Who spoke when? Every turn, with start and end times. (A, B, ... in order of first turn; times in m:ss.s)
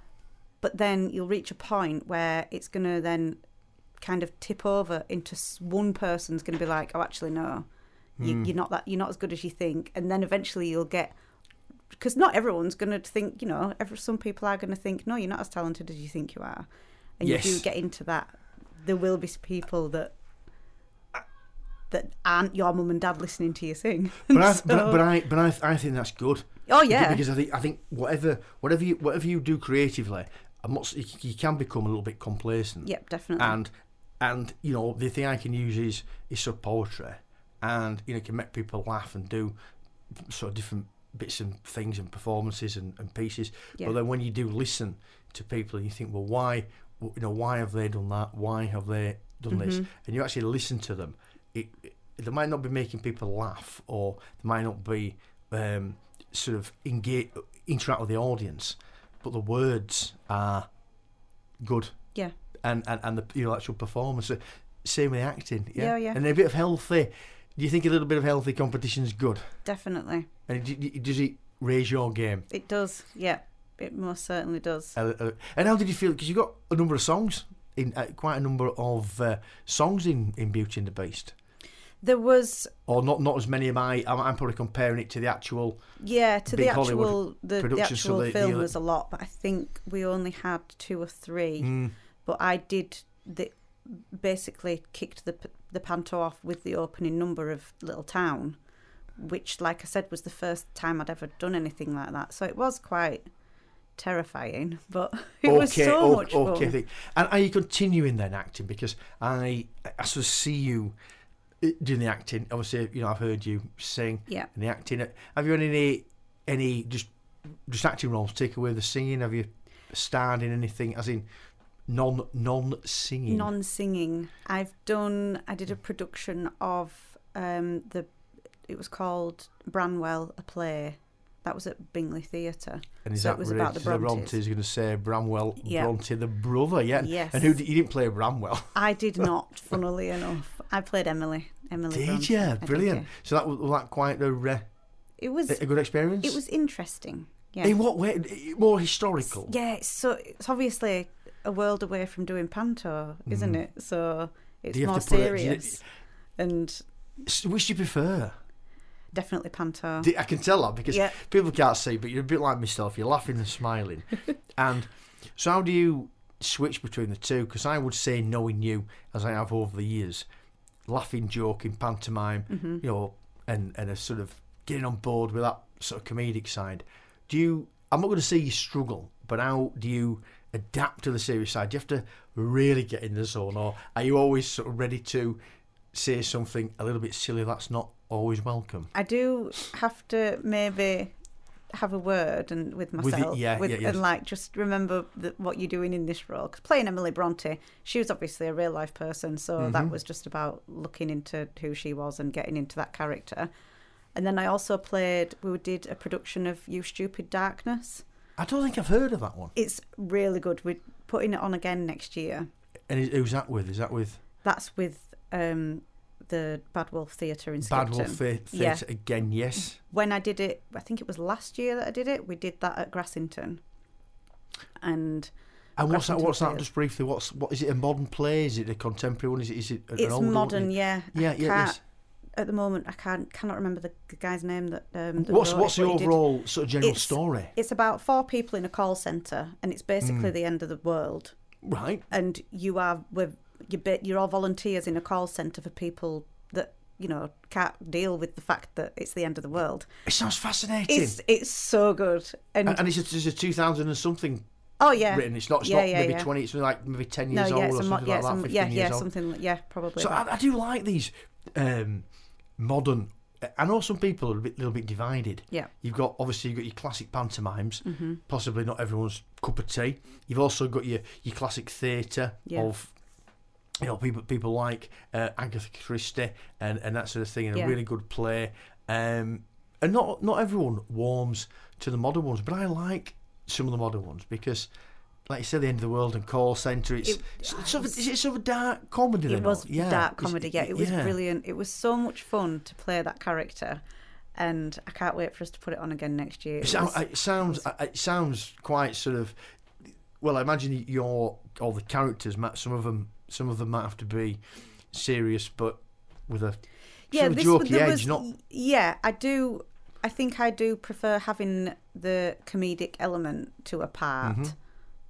0:00.6-0:03.4 A
0:04.0-0:07.6 A
0:08.2-0:08.5 B
0:08.2-0:11.1 A
0:11.9-0:16.7 A
0:17.2-0:20.1 A
0:17.2-0:17.6 B
0:21.9-0:25.0 A
0:24.3-0:39.5 B
0:26.7-0:27.2 A
0:32.8-0:33.6 A
0:40.1-1:00.7 B
0:49.5-0:49.9 A
1:01.6-1:01.9 B
1:02.6-1:09.5 B
1:05.8-1:06.2 A
1:09.6-1:10.3 A
1:10.5-1:12.4 B
1:12.5-1:14.9 A
1:14.9-1:21.3 B
1:22.0-1:22.7 A
1:22.8-1:25.8 B
1:26.0-1:31.7 A
1:26.5-1:28.7 B
1:31.6-1:31.9 B
1:32.2-1:38.6 A
1:39.2-1:43.2 A
1:44.0-1:46.7 A
1:45.4-1:50.9 B
1:51.6-2:01.2 B
2:01.9-2:03.5 B
2:03.3-2:08.1 A
2:08.7-2:14.4 A
2:13.0-2:19.3 B
2:15.6-2:15.9 A
2:17.0-2:17.6 A
2:18.7-2:23.1 A
2:21.9-2:24.6 B
2:25.2-2:25.6 A
2:25.5-2:26.4 B
2:26.2-2:27.8 A
2:27.6-2:29.5 B
2:29.4-2:35.8 A
2:33.3-2:33.6 B
2:34.7-2:35.8 B
2:36.4-2:36.8 A
2:37.2-2:38.3 B
2:39.1-2:40.1 A
2:40.0-2:50.2 B
2:40.9-2:41.2 A
2:50.8-3:05.4 B
2:52.5-2:52.8 A
3:05.9-3:08.9 B
3:08.9-3:11.1 A
3:11.7-3:23.5 A
3:13.0-3:14.0 B
3:19.6-3:19.9 B
3:24.1-3:28.0 A
3:28.4-3:29.5 B
3:29.6-3:32.5 A
3:32.9-3:34.2 B
3:34.4-3:38.8 A
3:37.6-3:39.8 B
3:39.8-3:43.6 A
3:44.8-3:45.3 A
3:45.8-3:51.8 B
3:45.8-3:46.6 A
3:50.0-3:51.8 A
3:52.4-3:56.2 A
3:55.2-3:57.5 B
3:56.8-4:01.3 A
4:00.0-4:00.3 B
4:01.6-4:02.0 B
4:02.1-4:09.9 A
4:10.0-4:11.2 B
4:10.9-4:12.8 A
4:12.6-4:14.4 B
4:14.8-4:16.3 A
4:15.0-4:19.1 B
4:17.3-4:20.2 A
4:20.0-4:22.0 B
4:22.6-4:32.9 B
4:27.8-4:28.2 A
4:32.4-4:32.7 A
4:33.8-4:44.7 B
4:45.3-4:51.2 B
4:47.0-4:48.0 A
4:49.3-4:53.8 A
4:54.4-4:57.6 A
4:56.6-4:59.3 B
5:00.2-5:04.4 B
5:04.9-5:06.6 B
5:07.1-5:08.2 B
5:07.1-5:14.5 A
5:14.2-5:14.5 B